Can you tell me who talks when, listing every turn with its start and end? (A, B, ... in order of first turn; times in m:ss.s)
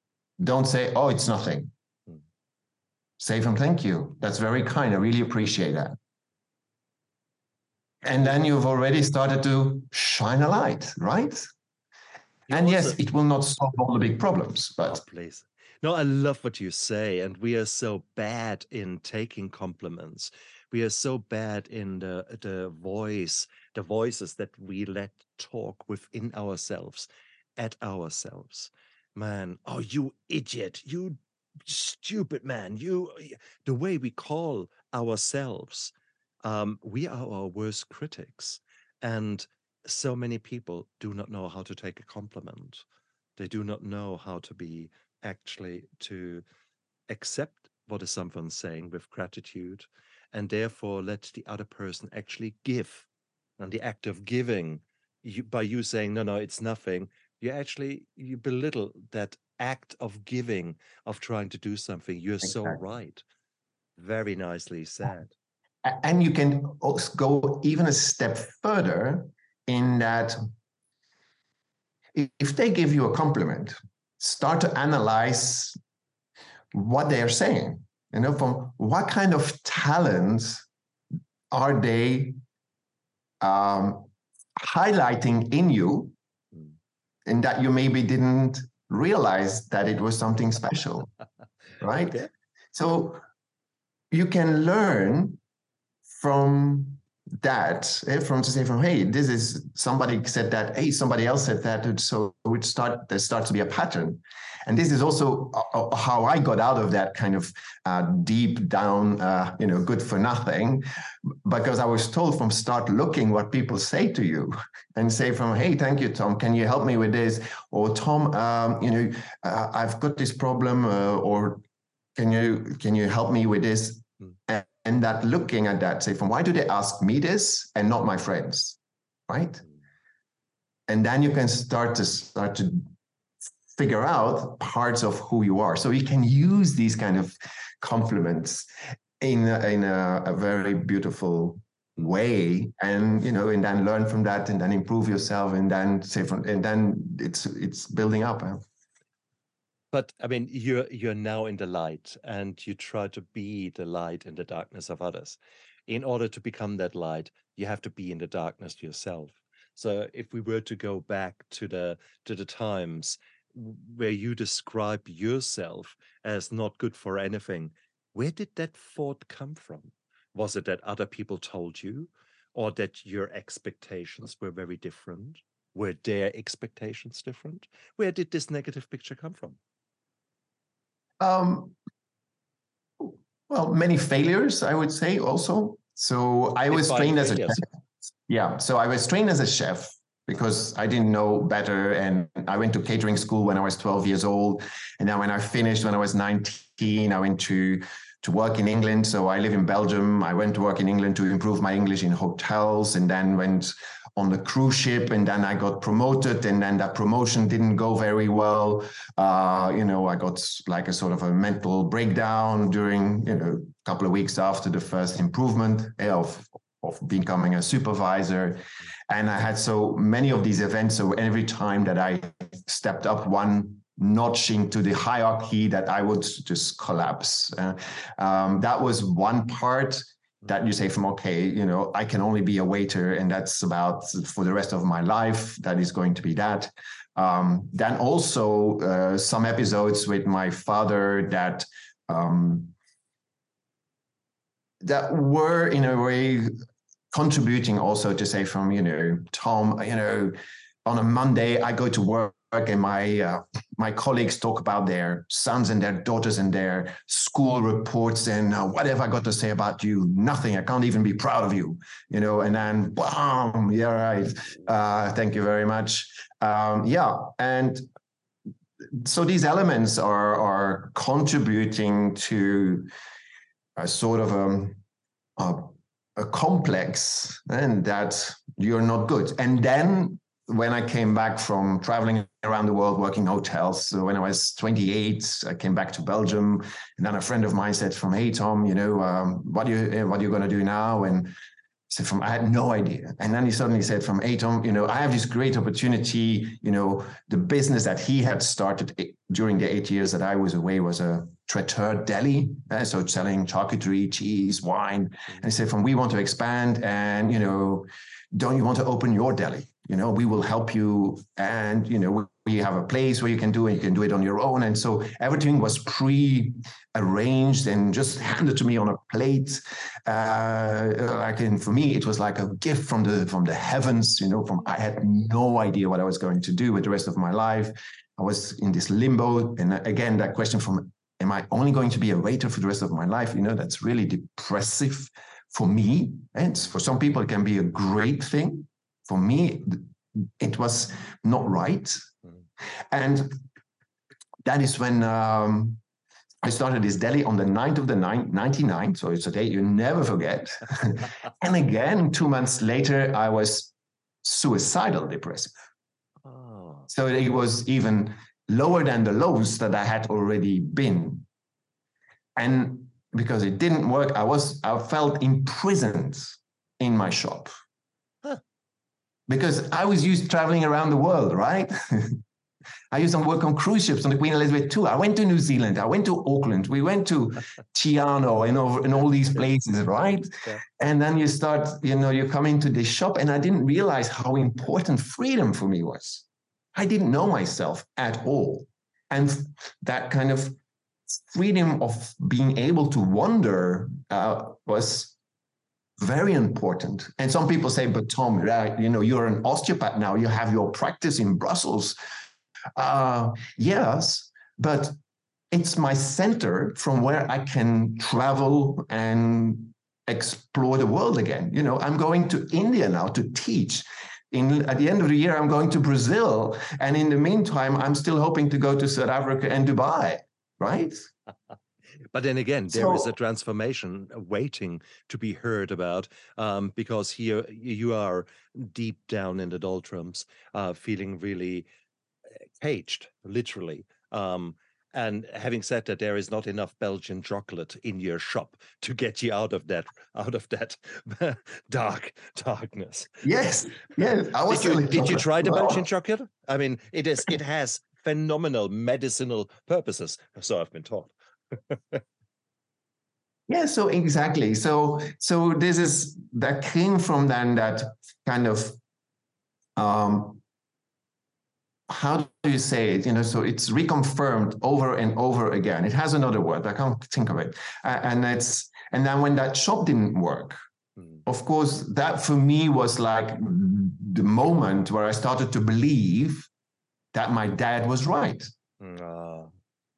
0:00.4-0:01.7 A
0:03.2-0:06.0 A
0:08.0-0:11.5 A
0:12.5-0:13.0 B
0:12.5-0:15.0 A
0:14.8-0:35.9 B
0:36.4-0:42.8 B
0:43.4-0:46.4 B
0:47.1-0:53.1 B
0:53.6-1:03.2 B
1:02.4-1:02.8 A
1:04.0-1:05.3 B
1:05.8-1:10.4 A
1:12.1-1:15.8 A
1:16.7-1:20.6 A
1:21.5-1:22.4 A
1:23.4-1:26.1 A
1:27.2-1:31.1 A
1:31.8-1:33.2 A
1:34.1-1:35.4 A
1:36.1-1:50.8 A
1:51.4-2:01.6 A
2:02.2-2:09.6 A
2:10.9-2:12.9 A
2:13.7-2:18.7 A
2:19.2-2:28.6 A
2:29.9-2:59.6 B
3:01.2-3:01.8 A
3:03.0-3:07.6 A
3:06.7-3:07.6 B
3:08.3-4:02.7 A
4:04.8-4:06.5 A
4:07.1-4:27.8 A
4:28.9-4:32.9 A
4:33.8-4:34.8 A
4:35.4-4:51.3 A
4:51.9-5:42.0 A
5:42.9-5:43.4 A
5:44.4-5:45.8 A
5:46.4-5:53.7 A
5:54.2-5:55.5 A
5:56.2-5:56.9 B
5:56.9-6:01.2 A
6:02.4-6:07.5 A
6:09.3-6:12.2 A
6:12.9-6:30.6 A
6:31.1-6:35.1 A
6:36.0-6:42.0 A
6:42.8-6:44.9 A
6:45.5-7:01.1 A
7:02.1-7:11.7 B
7:02.7-7:03.1 A
7:12.6-7:23.2 B
7:23.2-7:25.8 A
7:24.4-7:32.0 B
7:33.5-7:38.8 A
7:39.8-7:40.4 A
7:41.9-7:50.6 A
7:51.2-7:56.5 A
7:57.1-7:58.5 A
7:58.8-7:59.5 B